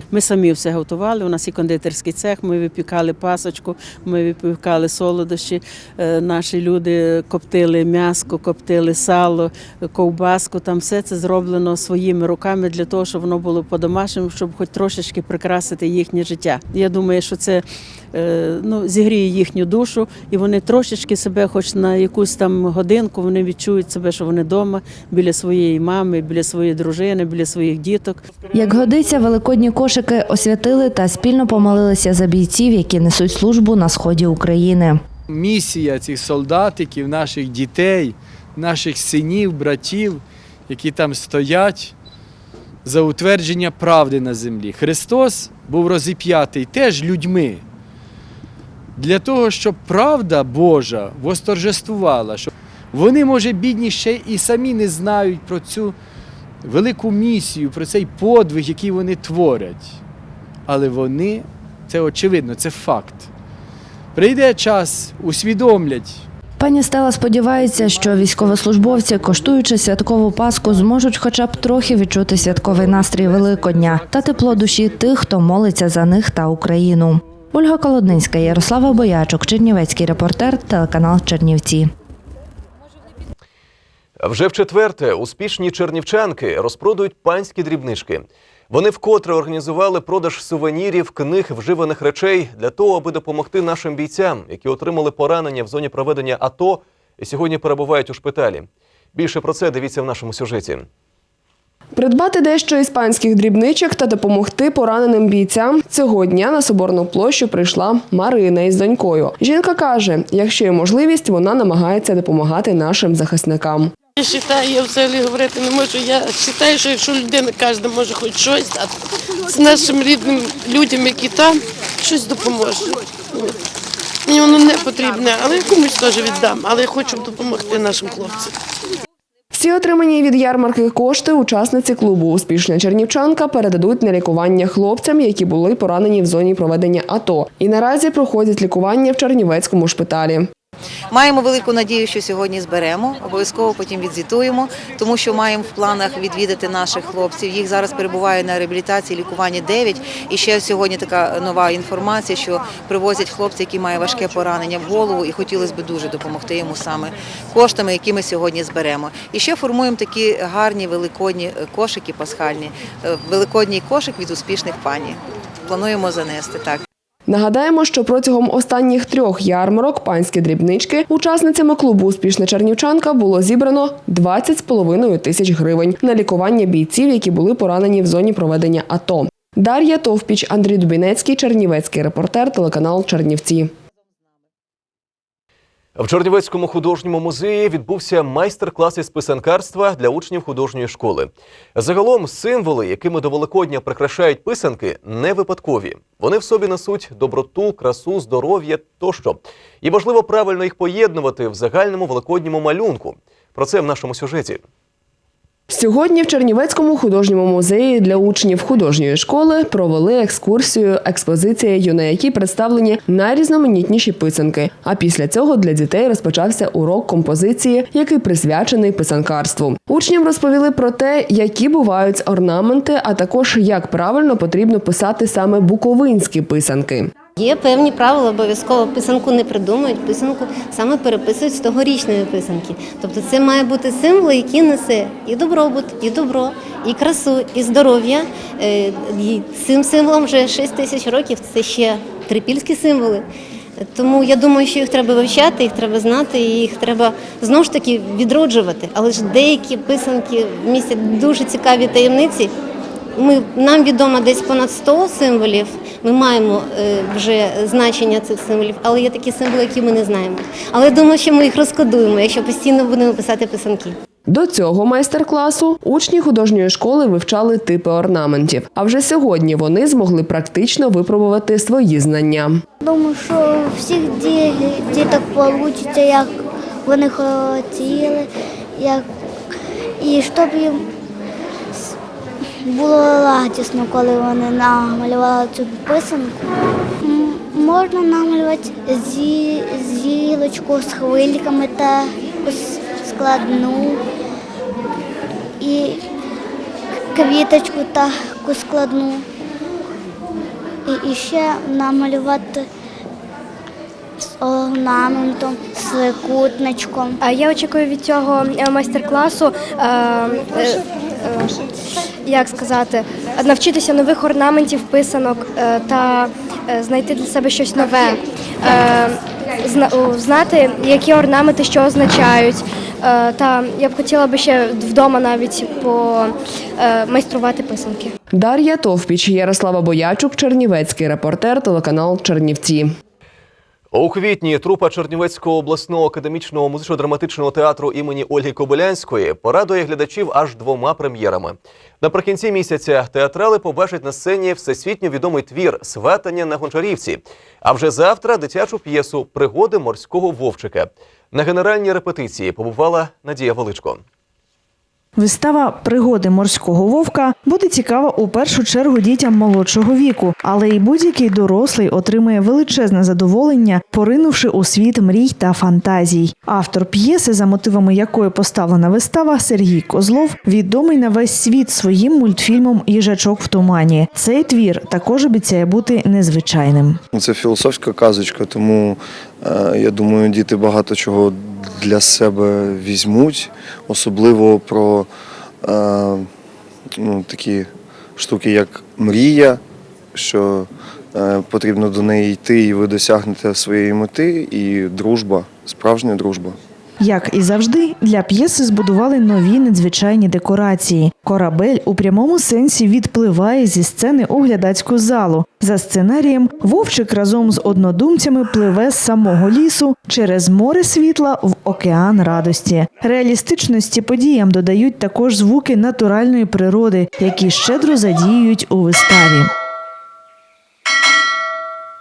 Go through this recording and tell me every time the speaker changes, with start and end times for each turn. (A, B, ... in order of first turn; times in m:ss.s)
0:00.1-0:28.2 A
0:28.5-0:34.9 B
0:35.3-0:41.9 C
0:42.8-0:47.6 C
0:49.0-0:55.9 C
0:56.6-1:00.0 C
1:00.7-1:03.3 C
1:04.1-1:06.2 C
1:06.6-1:21.8 B
1:24.2-1:40.8 D
1:42.0-1:53.9 E
1:54.2-1:58.9 F
1:59.5-2:03.5 F
2:04.3-2:08.5 F
2:09.5-2:20.5 E
2:21.1-2:46.8 G
2:47.3-3:03.7 E
3:06.0-3:24.6 D
3:25.7-3:47.1 E
3:47.4-4:03.2 H
4:03.8-4:12.5 H
4:13.1-4:24.0 H
4:24.3-4:32.6 E
4:32.8-4:36.3 I
4:36.8-4:39.0 I
4:40.0-4:40.8 I
4:42.6-4:46.4 I
4:47.0-4:54.0 I
4:55.6-4:56.0 I
4:57.1-4:59.2 I
5:00.9-5:02.6 I
5:04.4-5:07.2 I
5:07.2-5:11.5 J
5:12.2-5:28.1 J
5:28.3-5:32.9 E
5:33.9-5:54.0 D
5:55.2-6:17.0 K
6:17.1-6:25.1 L
6:25.6-6:26.3 L
6:27.0-6:29.6 L
6:30.1-6:36.6 L
6:37.0-6:59.5 K